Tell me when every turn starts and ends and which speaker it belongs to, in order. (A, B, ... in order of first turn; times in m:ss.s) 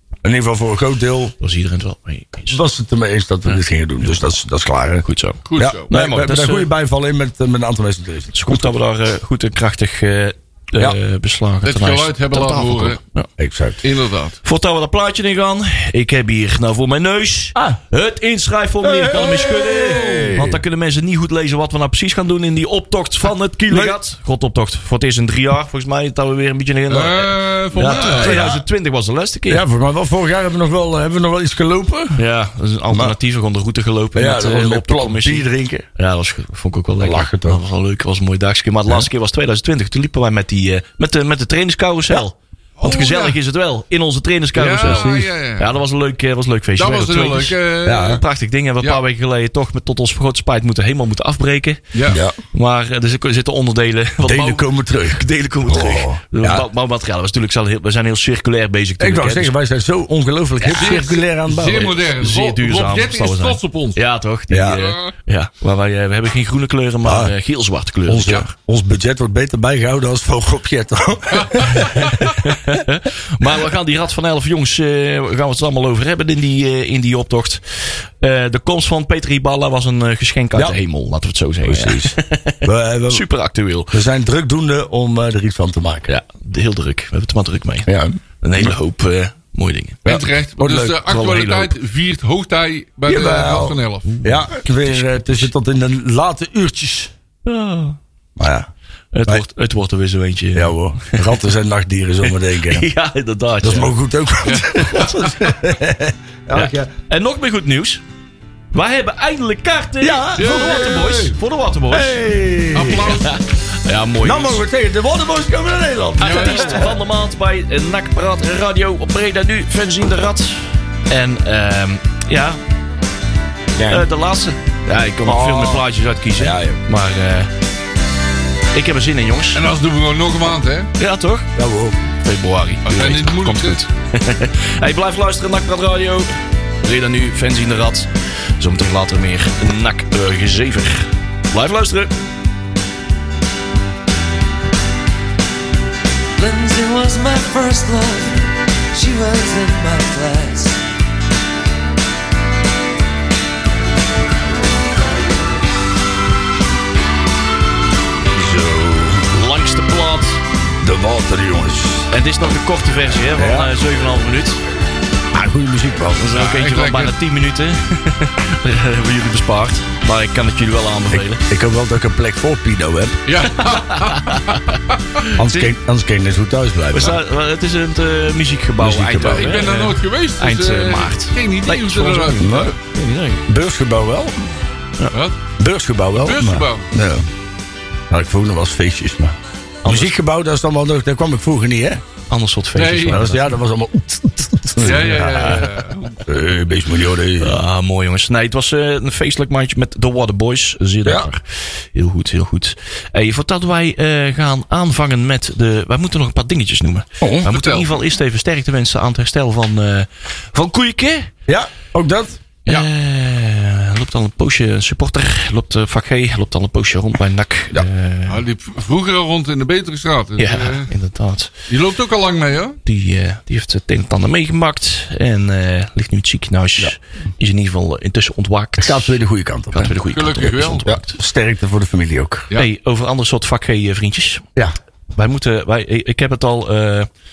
0:00.2-0:01.4 A
0:01.4-0:02.6 B
0:02.5-0:05.0 A
0:05.0-0:06.7 B
0:05.5-0:05.9 C
0:05.6-0:08.7 A
0:08.3-0:13.3 B
0:11.6-0:13.0 C
0:13.4-0:13.8 A
0:13.8-0:14.4 C
0:14.4-0:29.6 B
0:18.8-0:20.6 A
0:19.8-0:20.4 C
0:23.7-0:24.0 A
0:26.9-0:28.4 C
0:27.8-0:28.6 A
0:29.5-0:32.2 A
0:32.2-0:35.4 B
0:34.1-0:35.9 A
0:36.0-0:52.0 B
0:37.0-0:37.6 A
0:42.8-0:43.4 C
0:44.6-0:45.7 C
0:44.8-0:45.3 A
0:46.8-0:48.2 C
0:47.8-0:48.2 A
0:51.9-0:52.2 C
0:52.1-0:52.4 A
0:52.5-0:59.5 B
0:54.2-0:56.6 A
0:59.0-1:02.0 A
1:00.7-1:04.0 C
1:02.1-1:08.5 B
1:04.5-1:04.9 A
1:07.0-1:07.3 A
1:08.1-1:12.3 A
1:11.3-1:12.3 C
1:12.0-1:23.9 B
1:21.6-1:23.2 A
1:23.9-1:26.1 A
1:26.1-1:30.1 B
1:27.9-1:28.8 A
1:30.0-1:31.0 A
1:30.1-1:34.1 C
1:31.1-1:31.7 B
1:33.1-1:37.1 A
1:34.1-1:35.5 B
1:37.4-1:38.0 B
1:38.4-1:38.7 A
1:39.1-1:41.4 B
1:40.5-1:42.9 A
1:42.2-1:43.9 B
1:43.6-1:46.9 A
1:44.4-1:45.3 C
1:44.7-1:45.1 B
1:46.5-1:48.0 B
1:48.7-1:52.2 B
1:50.0-1:51.1 A
1:50.4-1:51.4 C
1:51.9-1:53.2 A
1:52.7-1:53.4 C
1:53.2-1:54.6 B
1:54.2-1:57.0 A
1:56.2-2:02.6 B
1:56.2-1:56.9 C
2:03.8-2:04.1 A
2:03.9-2:07.5 B
2:05.2-2:05.9 A
2:06.4-2:06.8 A
2:08.7-2:09.6 B
2:09.5-2:10.9 C
2:11.0-2:11.5 B
2:11.5-2:12.0 A
2:12.2-2:22.1 B
2:12.9-2:13.8 C
2:26.4-2:30.8 D
2:38.3-2:39.4 A
2:39.3-2:40.4 B
2:40.8-2:42.1 A
2:42.1-2:44.6 B
2:43.4-2:43.7 A
2:45.3-2:46.3 A
2:46.2-2:51.4 B
2:46.3-2:47.1 C
2:51.1-2:53.2 A
2:53.3-2:55.3 C
2:53.5-2:54.6 B
2:55.4-2:57.2 A
2:55.4-2:55.7 B
2:56.9-3:03.4 B
2:58.8-2:59.6 A
2:59.3-3:02.8 C
3:02.4-3:02.8 A
3:03.5-3:04.4 A
3:05.1-3:05.4 C
3:05.6-3:07.3 A
3:06.2-3:06.9 C
3:08.1-3:12.0 A
3:09.8-3:10.1 B
3:12.3-3:13.5 B
3:12.8-3:13.2 C
3:13.1-3:15.7 A
3:14.8-3:16.2 C
3:14.8-3:15.7 B
3:16.3-3:17.6 A
3:17.4-3:31.3 B
3:27.2-3:27.5 A
3:27.5-3:27.9 C
3:31.5-3:32.4 A
3:32.6-3:38.4 B
3:38.3-3:40.9 C
3:40.4-3:41.5 B
3:41.7-3:42.8 C
3:42.9-3:49.1 B
3:48.8-3:50.0 A
3:49.7-3:51.2 B
3:50.1-3:50.9 C
3:50.9-3:52.5 A
3:52.5-3:54.4 B
3:55.2-3:57.1 B